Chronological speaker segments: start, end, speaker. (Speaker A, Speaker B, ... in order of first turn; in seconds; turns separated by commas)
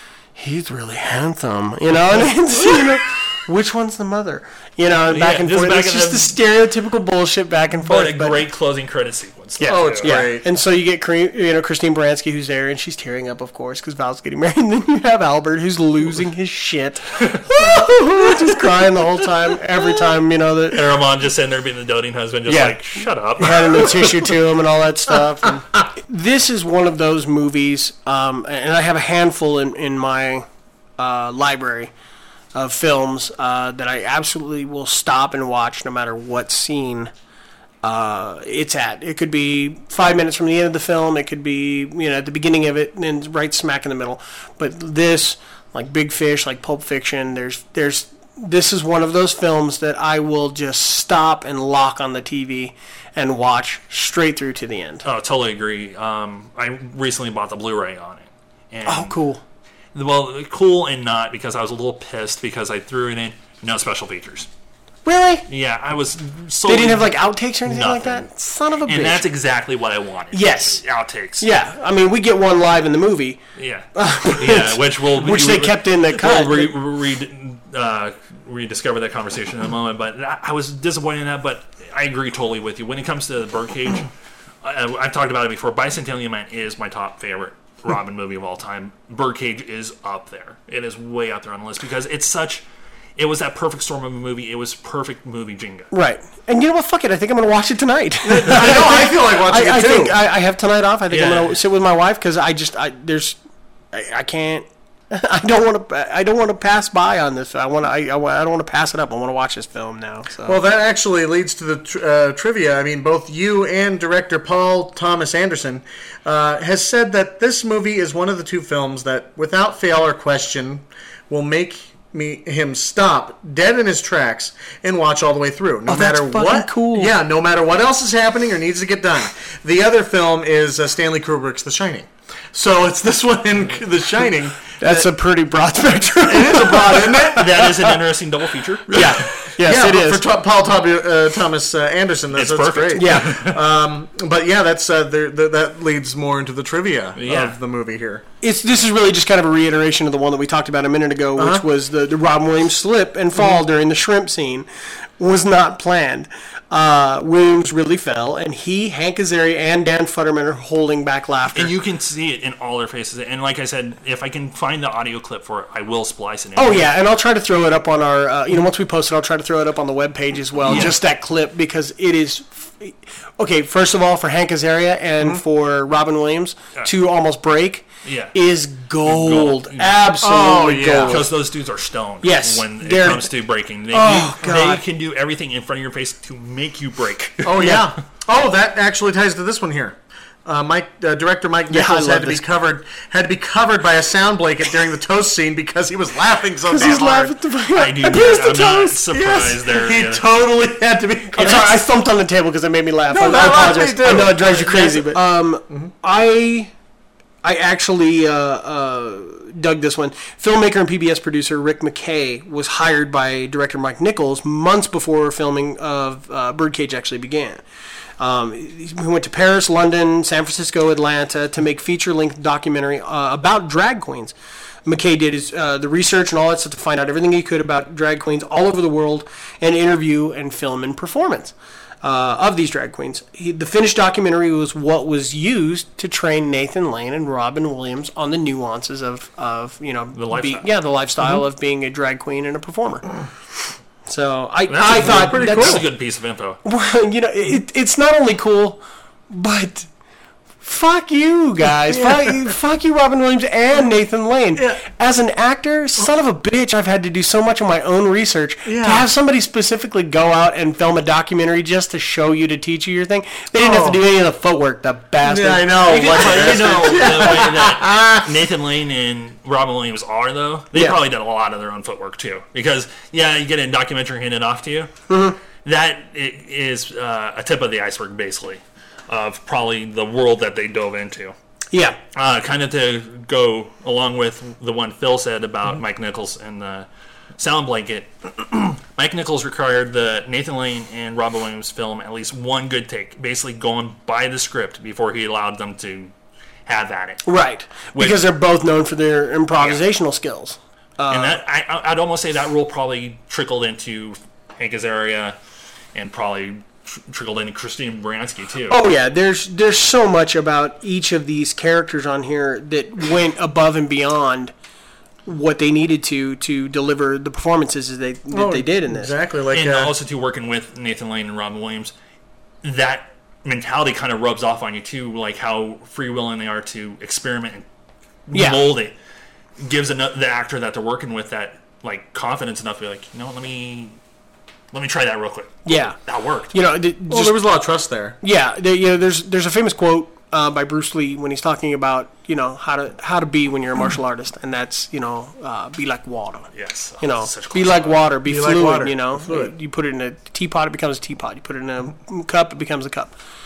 Speaker A: 0.3-8.5, Speaker B: 5.1-6.4, Speaker B: 7.8-10.2, Speaker C: 9.6-10.4, Speaker A: 10.0-20.9, Speaker B: 20.7-23.9, Speaker A: 22.5-30.4, Speaker A: 31.0-31.9, Speaker A: 32.5-37.1, Speaker A: 37.8-55.0, Speaker B: 55.0-59.1, Speaker A: 58.9-59.4, Speaker B: 59.9-64.5, Speaker A: 65.0-65.5, Speaker B: 65.5-68.3, Speaker A: 66.7-69.3, Speaker B: 68.8-71.5, Speaker A: 70.3-70.8, Speaker A: 71.4-73.4, Speaker B: 73.6-84.1, Speaker A: 73.9-76.8, Speaker B: 84.6-92.6, Speaker B: 93.2-95.9, Speaker A: 95.9-103.3, Speaker C: 98.2-100.2, Speaker B: 101.1-101.5, Speaker A: 103.9-110.6, Speaker C: 110.5-135.1, Speaker A: 125.9-127.1, Speaker A: 134.8-137.7, Speaker C: 136.2-137.8, Speaker B: 137.2-139.3, Speaker A: 138.9-140.2, Speaker C: 139.6-148.2, Speaker B: 142.3-143.6, Speaker A: 142.9-143.4, Speaker B: 147.2-147.5, Speaker A: 148.4-154.7, Speaker C: 151.3-151.6, Speaker C: 153.3-153.6, Speaker A: 155.2-161.8, Speaker B: 161.5-166.9, Speaker A: 166.6-181.3, Speaker B: 170.7-170.9, Speaker B: 178.0-178.3, Speaker B: 179.0-180.0, Speaker C: 180.2-181.2, Speaker B: 181.1-187.8, Speaker A: 182.2-183.3, Speaker A: 183.9-184.8, Speaker C: 187.4-197.3, Speaker A: 187.6-187.9, Speaker A: 191.7-192.4, Speaker A: 196.7-199.0, Speaker B: 197.7-200.2, Speaker C: 199.1-201.8, Speaker A: 201.3-206.7, Speaker C: 203.1-205.9, Speaker A: 207.4-217.6, Speaker A: 218.2-224.3, Speaker A: 224.8-243.0, Speaker B: 240.1-240.7, Speaker A: 244.1-245.9, Speaker B: 244.7-246.6, Speaker C: 244.8-245.8, Speaker A: 246.6-249.9, Speaker A: 250.6-267.2, Speaker C: 251.9-252.5, Speaker C: 254.6-254.8, Speaker C: 258.6-259.1, Speaker C: 263.5-264.0, Speaker C: 265.2-268.3, Speaker B: 265.9-274.9, Speaker A: 270.7-271.0, Speaker A: 275.1-275.4, Speaker B: 275.6-281.3, Speaker A: 281.7-282.0, Speaker B: 282.1-286.9, Speaker B: 287.4-296.1, Speaker B: 296.6-297.2, Speaker A: 297.2-301.4, Speaker B: 297.9-298.2, Speaker B: 299.6-299.8, Speaker B: 301.1-305.4, Speaker B: 305.9-308.8, Speaker A: 308.7-314.5, Speaker A: 315.2-319.1, Speaker C: 318.3-319.9, Speaker B: 319.5-321.9, Speaker B: 322.6-327.6, Speaker B: 328.3-328.9, Speaker A: 328.3-328.6, Speaker B: 329.6-333.9, Speaker B: 334.7-336.5, Speaker A: 335.6-336.0, Speaker A: 336.5-337.4, Speaker C: 337.1-338.2, Speaker A: 338.2-353.1, Speaker B: 346.5-348.1, Speaker C: 348.2-349.5